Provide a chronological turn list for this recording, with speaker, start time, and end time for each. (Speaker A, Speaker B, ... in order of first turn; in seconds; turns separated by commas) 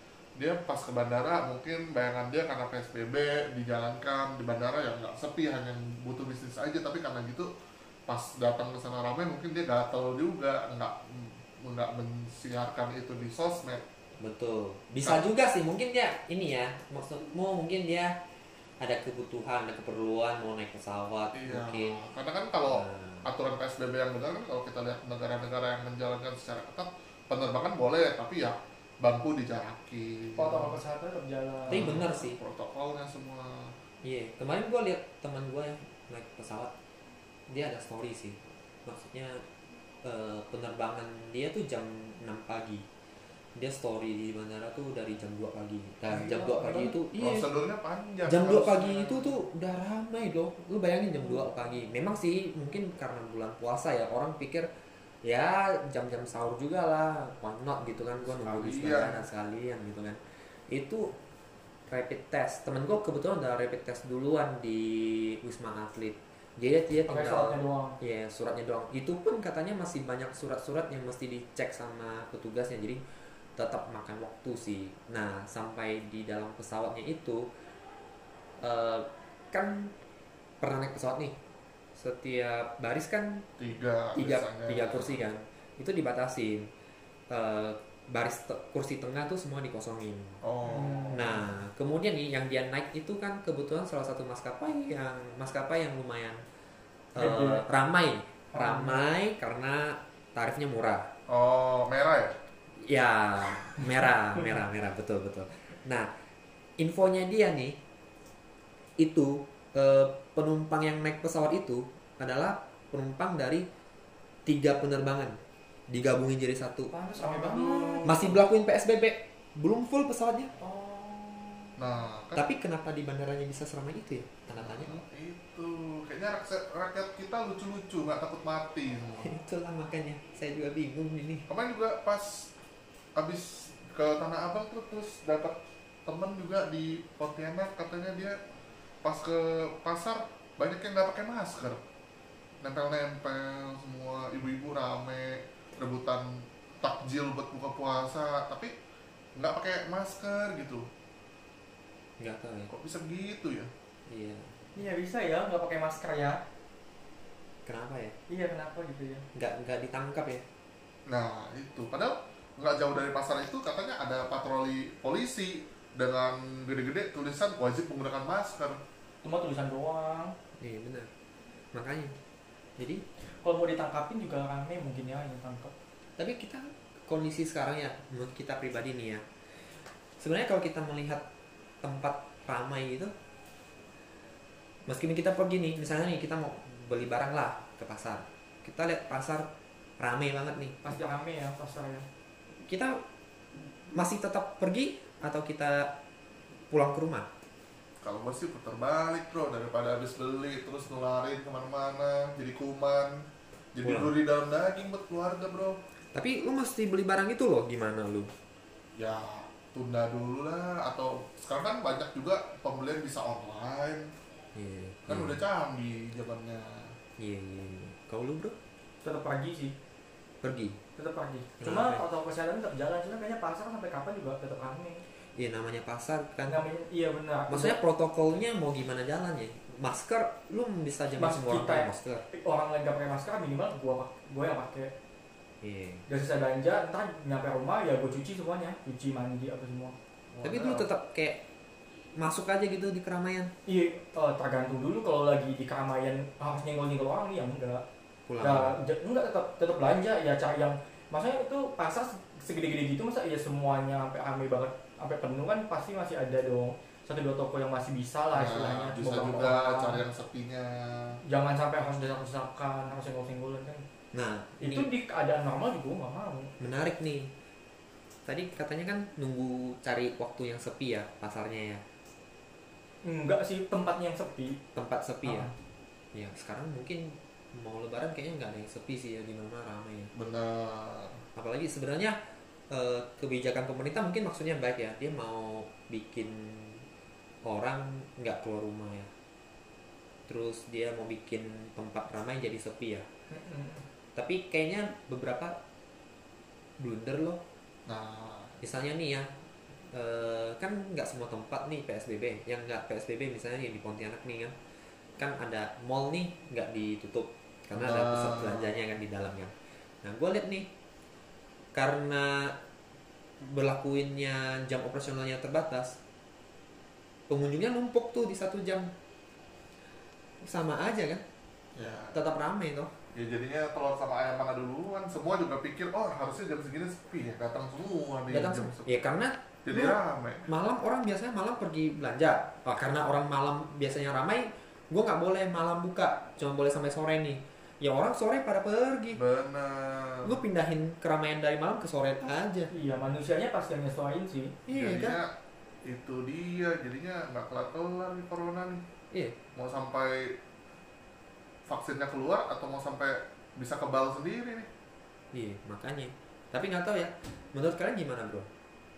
Speaker A: 0.4-7.5, Speaker A: 8.1-13.8, Speaker B: 14.2-18.1, Speaker B: 18.8-22.0, Speaker A: 21.3-30.8, Speaker B: 22.7-23.3, Speaker C: 30.4-31.9, Speaker A: 31.7-33.8, Speaker B: 31.7-32.4, Speaker B: 34.0-36.7, Speaker B: 37.5-39.3, Speaker B: 40.0-42.8, Speaker B: 43.6-47.5, Speaker C: 46.0-47.0, Speaker A: 47.2-49.4, Speaker B: 48.3-54.6, Speaker B: 55.2-60.2, Speaker A: 58.3-59.2, Speaker B: 60.7-61.1, Speaker B: 61.9-73.0, Speaker C: 67.1-68.0, Speaker B: 73.6-77.4, Speaker B: 78.6-79.9, Speaker B: 80.6-81.4, Speaker B: 82.0-83.5, Speaker A: 83.6-85.2, Speaker B: 84.2-86.7, Speaker B: 87.3-90.4, Speaker A: 90.4-91.3, Speaker C: 90.7-91.4, Speaker B: 91.1-96.4, Speaker B: 97.2-101.1, Speaker C: 97.2-97.7, Speaker C: 98.5-99.0, Speaker A: 101.3-102.3, Speaker B: 102.8-106.1, Speaker B: 106.8-107.8, Speaker B: 109.0-113.7, Speaker B: 114.5-115.3, Speaker B: 115.9-116.9, Speaker C: 116.9-118.4, Speaker A: 117.2-118.3, Speaker B: 118.0-120.5, Speaker C: 120.6-121.8, Speaker A: 121.8-122.5, Speaker B: 122.3-125.0, Speaker A: 124.6-129.3, Speaker B: 129.2-131.5, Speaker A: 131.5-132.5, Speaker A: 133.2-138.4, Speaker A: 139.0-141.8, Speaker A: 142.6-148.7, Speaker A: 149.4-150.9, Speaker B: 152.2-152.7, Speaker A: 152.7-153.7, Speaker B: 154.1-154.5, Speaker C: 154.8-156.4, Speaker B: 157.7-158.2, Speaker C: 158.3-159.2, Speaker B: 159.3-160.4, Speaker A: 161.1-168.8, Speaker C: 169.2-170.3, Speaker B: 170.6-171.1, Speaker B: 171.7-172.1, Speaker B: 172.8-173.0, Speaker C: 173.4-175.7, Speaker B: 176.2-179.2, Speaker B: 180.2-181.2, Speaker B: 181.8-183.1, Speaker B: 184.9-189.5, Speaker B: 190.0-190.8, Speaker C: 190.8-192.1, Speaker B: 192.6-193.0, Speaker B: 193.9-195.9, Speaker B: 196.7-197.3, Speaker A: 198.0-205.8, Speaker B: 203.8-204.1, Speaker B: 206.1-208.3, Speaker A: 209.0-214.1, Speaker B: 214.6-215.5, Speaker A: 215.1-217.0, Speaker B: 217.2-218.6, Speaker C: 219.0-219.8, Speaker B: 220.4-220.8, Speaker C: 221.0-225.0, Speaker B: 221.6-222.0, Speaker B: 225.4-226.6, Speaker C: 226.5-227.8, Speaker B: 227.5-232.2, Speaker C: 231.2-234.9, Speaker B: 235.6-236.1, Speaker C: 236.1-239.9, Speaker A: 240.3-240.9, Speaker B: 240.4-241.4, Speaker B: 242.2-243.5, Speaker C: 243.7-247.8, Speaker B: 248.3-248.8, Speaker C: 248.4-260.0, Speaker A: 258.3-261.2, Speaker C: 261.3-263.8, Speaker B: 264.1-264.9, Speaker C: 264.6-266.5, Speaker B: 266.6-267.3, Speaker B: 268.3-271.8, Speaker C: 273.0-274.6, Speaker B: 274.8-275.5, Speaker C: 275.2-275.5, Speaker B: 276.1-280.1, Speaker A: 280.1-281.2, Speaker B: 281.4-282.2, Speaker B: 282.7-286.9, Speaker B: 287.5-289.1, Speaker B: 290.3-293.1, Speaker C: 293.3-293.9, Speaker B: 294.2-295.6, Speaker B: 296.8-297.4, Speaker A: 297.9-298.6, Speaker B: 298.6-299.3, Speaker B: 299.9-304.5, Speaker B: 305.2-309.5, Speaker A: 307.7-308.8, Speaker B: 310.0-310.7, Speaker B: 311.8-312.5, Speaker B: 313.4-316.0, Speaker B: 317.3-318.9, Speaker B: 320.4-321.2, Speaker A: 321.8-322.2, Speaker B: 322.1-322.9, Speaker A: 323.1-328.9, Speaker B: 328.3-339.2, Speaker A: 329.7-330.5, Speaker A: 339.1-340.4, Speaker B: 340.2-342.7, Speaker C: 342.7-344.6, Speaker B: 344.7-345.2, Speaker A: 344.7-345.3, Speaker A: 345.9-348.8, Speaker A: 349.6-350.4, Speaker A: 351.7-354.7, Speaker B: 355.3-358.5